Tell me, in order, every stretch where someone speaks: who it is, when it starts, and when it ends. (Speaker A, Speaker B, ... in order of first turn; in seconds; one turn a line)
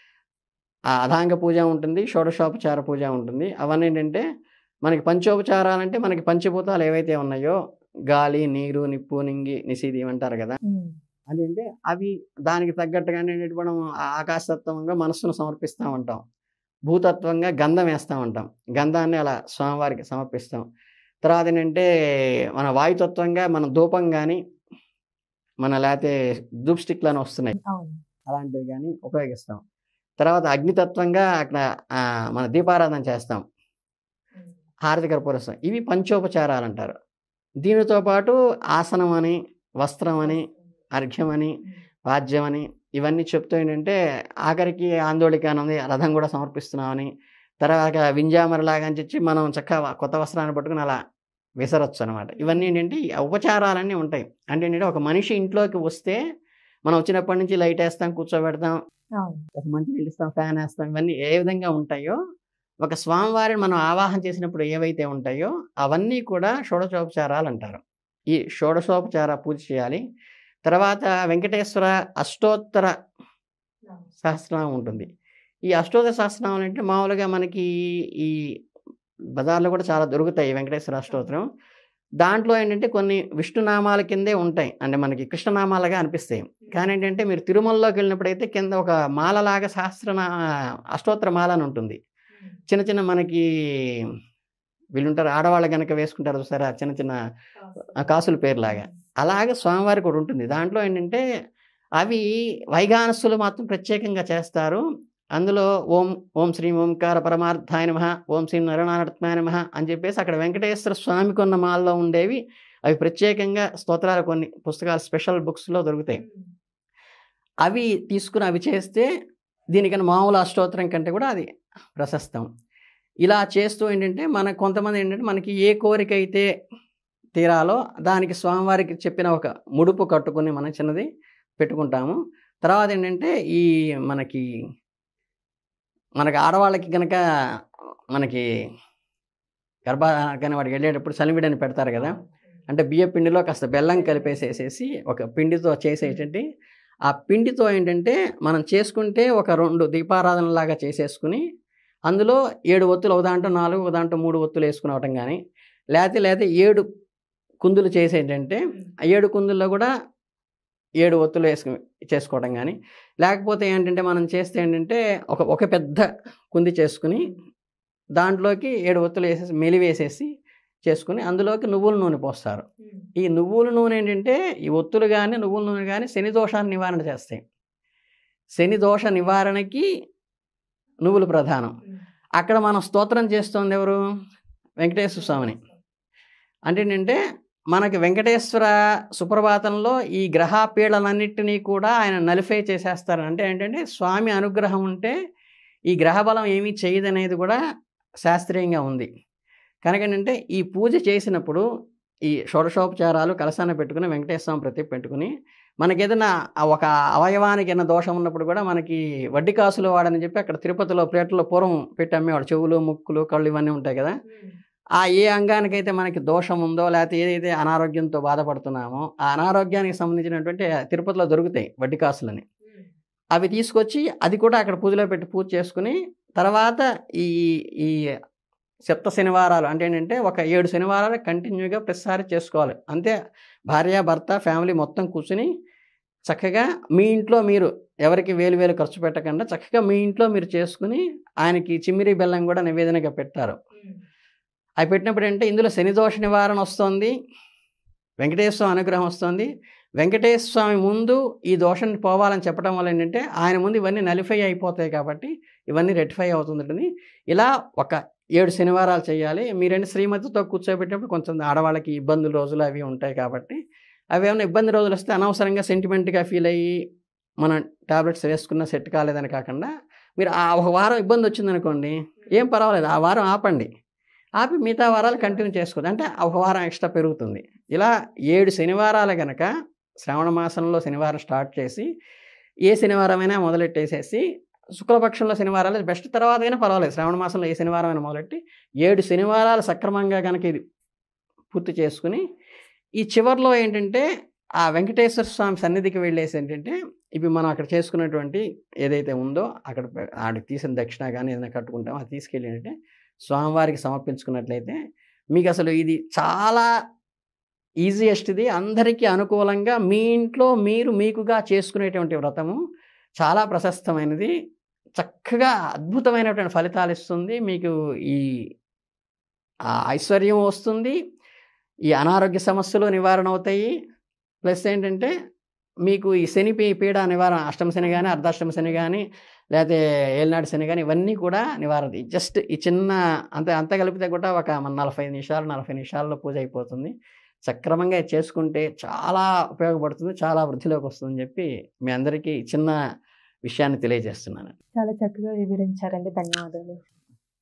Speaker A: 0.9-4.2
Speaker A: 4.8-7.6
Speaker A: 8.1-10.6
Speaker B: 10.7-11.0
Speaker A: 11.3-16.2
Speaker A: 16.9-20.6
Speaker A: 21.2-21.9
Speaker A: 22.6-24.4
Speaker A: 25.6-26.1
Speaker A: 26.7-27.6
Speaker B: 27.6-28.0
Speaker A: 28.3-29.6
Speaker A: 30.2-33.4
Speaker A: 34.9-36.9
Speaker A: 37.6-41.5
Speaker B: 40.2-40.5
Speaker A: 42.1-47.1
Speaker A: 47.6-51.0
Speaker A: 51.6-56.2
Speaker B: 52.4-52.7
Speaker A: 56.9-58.8
Speaker B: 59.2-59.5
Speaker A: 59.5-62.2
Speaker A: 62.8-67.8
Speaker A: 68.3-70.0
Speaker A: 70.7-72.9
Speaker A: 74.2-75.1
Speaker A: 75.7-78.4
Speaker A: 79.4-81.5
Speaker A: 82.2-90.3
Speaker A: 90.9-92.0
Speaker A: 92.7-94.0
Speaker A: 95.0-97.2
Speaker B: 97.6-98.1
Speaker A: 97.9-101.2
Speaker B: 98.7-99.0
Speaker A: 102.0-104.8
Speaker A: 105.4-116.2
Speaker A: 117.6-119.1
Speaker A: 119.7-122.5
Speaker A: 123.2-126.5
Speaker A: 127.4-131.1
Speaker A: 131.6-134.4
Speaker A: 136.2-137.2
Speaker A: 138.1-138.4
Speaker A: 139.9-142.2
Speaker B: 142.0-142.3
Speaker A: 142.7-146.4
Speaker B: 144.0-144.5
Speaker A: 147.1-151.4
Speaker A: 152.1-155.4
Speaker A: 156.0-156.8
Speaker A: 157.6-159.9
Speaker A: 161.0-167.3
Speaker A: 168.2-170.3
Speaker A: 170.8-172.6
Speaker B: 172.8-173.1
Speaker A: 173.2-177.4
Speaker A: 178.6-179.9
Speaker A: 181.1-181.7
Speaker A: 182.4-184.0
Speaker A: 184.8-185.6
Speaker B: 185.2-185.8
Speaker A: 186.7-187.2
Speaker A: 187.7-195.1
Speaker A: 195.9-197.6
Speaker A: 198.2-199.1
Speaker A: 199.8-201.6
Speaker A: 202.3-205.3
Speaker A: 205.8-214.1
Speaker B: 214.3-214.6
Speaker A: 215.0-222.4
Speaker A: 223.3-228.0
Speaker A: 228.9-233.2
Speaker A: 233.7-235.5
Speaker A: 236.3-243.6
Speaker B: 243.8-244.0
Speaker A: 244.8-247.1
Speaker A: 248.2-263.6
Speaker A: 264.1-266.7
Speaker A: 267.4-273.7
Speaker A: 274.4-279.5
Speaker B: 275.0-275.5
Speaker A: 280.0-281.9
Speaker A: 282.7-284.2
Speaker A: 284.8-290.6
Speaker A: 291.5-292.2
Speaker A: 293.0-294.1
Speaker A: 294.6-302.7
Speaker A: 303.3-304.8
Speaker A: 305.3-306.7
Speaker A: 307.8-312.6
Speaker A: 313.2-314.3
Speaker A: 315.0-318.2
Speaker A: 319.9-321.0
Speaker A: 321.9-323.7
Speaker A: 324.4-325.1
Speaker A: 325.9-329.0
Speaker A: 329.5-336.9
Speaker A: 337.5-342.8
Speaker A: 343.5-344.5
Speaker B: 344.8-346.8